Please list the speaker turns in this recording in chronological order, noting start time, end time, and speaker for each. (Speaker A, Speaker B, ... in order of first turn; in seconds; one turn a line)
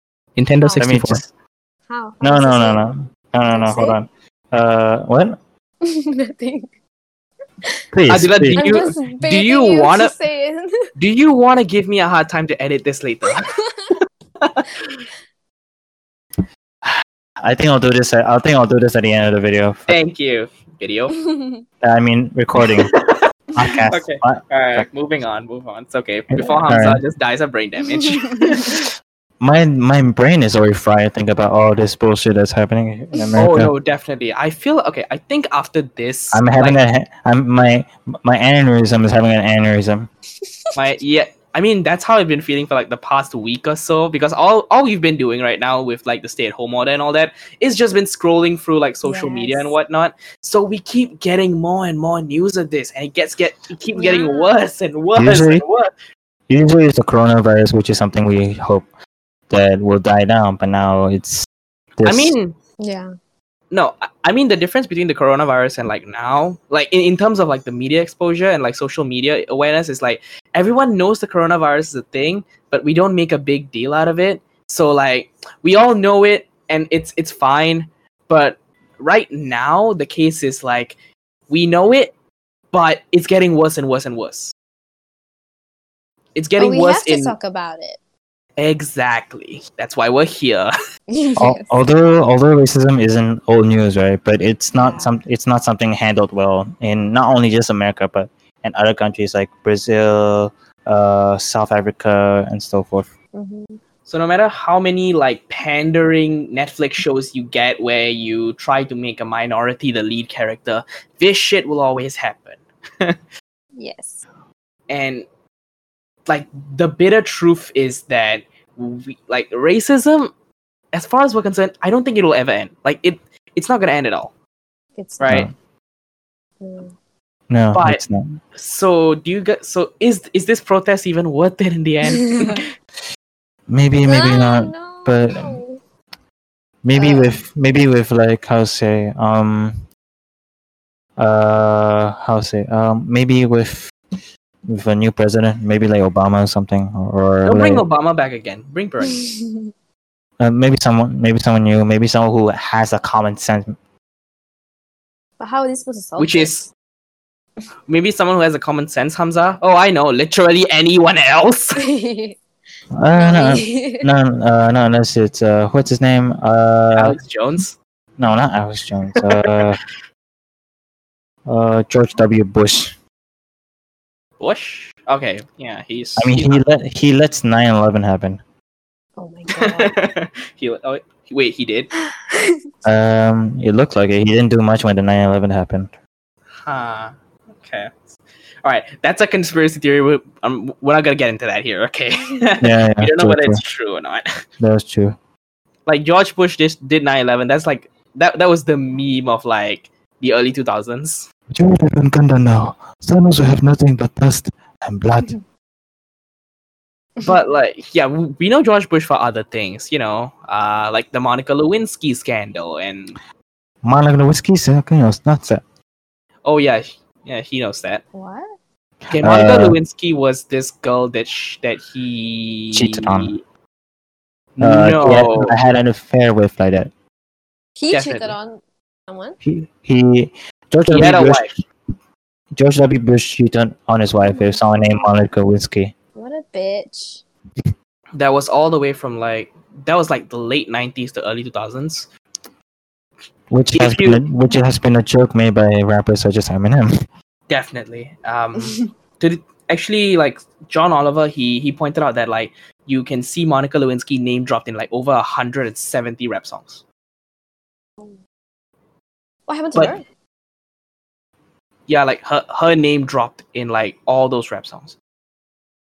Speaker A: 0.4-1.2
Speaker B: 0.6-0.9
Speaker C: 0.8-1.3
Speaker B: 1.9-2.8
Speaker C: 2.2-5.4
Speaker B: 3.5-4.0
Speaker B: 5.8-6.7
Speaker C: 7.9-8.8
Speaker A: 8.1-10.1
Speaker B: 8.6-10.9
Speaker A: 11.0-13.5
Speaker B: 13.5-13.9
Speaker A: 14.4-15.0
Speaker C: 17.4-19.9
Speaker A: 19.9-21.2
Speaker B: 21.2-21.6
Speaker C: 21.8-22.9
Speaker A: 22.6-23.2
Speaker C: 23.6-24.9
Speaker A: 23.9-28.9
Speaker C: 26.3-27.0
Speaker B: 27.9-28.8
Speaker C: 29.4-33.7
Speaker A: 33.4-36.8
Speaker C: 36.3-40.1
Speaker A: 40.8-55.9
Speaker B: 49.0-49.8
Speaker B: 53.9-54.5
Speaker C: 55.2-55.6
Speaker C: 56.5-58.9
Speaker C: 59.5-62.4
Speaker A: 62.0-62.6
Speaker B: 62.8-63.1
Speaker A: 63.7-81.0
Speaker A: 81.5-82.1
Speaker A: 82.7-84.5
Speaker A: 86.3-87.3
Speaker B: 86.6-88.0
Speaker A: 88.6-90.7
Speaker B: 91.1-91.8
Speaker C: 91.4-103.1
Speaker B: 94.7-95.1
Speaker B: 103.3-103.8
Speaker A: 104.1-113.2
Speaker B: 113.8-114.2
Speaker A: 114.9-115.3
Speaker A: 116.3-120.3
Speaker A: 120.9-124.3
Speaker B: 125.0-125.5
Speaker A: 125.2-125.5
Speaker B: 126.6-126.9
Speaker C: 127.5-128.4
Speaker A: 127.7-128.0
Speaker A: 128.6-132.7
Speaker C: 133.7-135.6
Speaker B: 134.1-135.8
Speaker C: 136.8-139.8
Speaker B: 136.9-137.4
Speaker C: 141.2-143.9
Speaker C: 144.7-147.8
Speaker A: 147.4-149.2
Speaker B: 149.1-149.7
Speaker C: 150.4-153.8
Speaker B: 155.4-156.5
Speaker A: 156.2-156.7
Speaker A: 157.9-161.9
Speaker B: 161.8-162.4
Speaker C: 162.9-167.2
Speaker B: 163.1-164.1
Speaker A: 167.0-167.8
Speaker C: 168.2-169.8
Speaker A: 169.2-169.6
Speaker C: 171.5-173.0
Speaker A: 174.4-176.6
Speaker C: 176.2-178.4
Speaker B: 179.2-180.0
Speaker A: 179.5-181.9
Speaker B: 182.1-182.7
Speaker C: 182.8-185.9
Speaker A: 186.7-194.4
Speaker C: 192.6-193.6
Speaker C: 194.6-195.2
Speaker A: 195.9-201.3
Speaker C: 201.5-205.3
Speaker A: 207.2-213.2
Speaker C: 213.8-215.6
Speaker A: 216.4-218.0
Speaker B: 218.1-218.6
Speaker A: 219.1-223.4
Speaker C: 219.2-219.8
Speaker C: 222.7-223.3
Speaker A: 224.6-225.6
Speaker C: 224.6-226.9
Speaker B: 227.8-229.4
Speaker A: 227.9-228.3
Speaker C: 229.4-231.5
Speaker A: 230.9-231.6
Speaker C: 232.6-235.9
Speaker B: 234.2-235.1
Speaker B: 236.2-237.2
Speaker A: 238.2-242.1
Speaker C: 243.5-246.9
Speaker A: 243.8-244.2
Speaker A: 247.5-256.8
Speaker B: 259.5-260.0
Speaker A: 261.9-265.0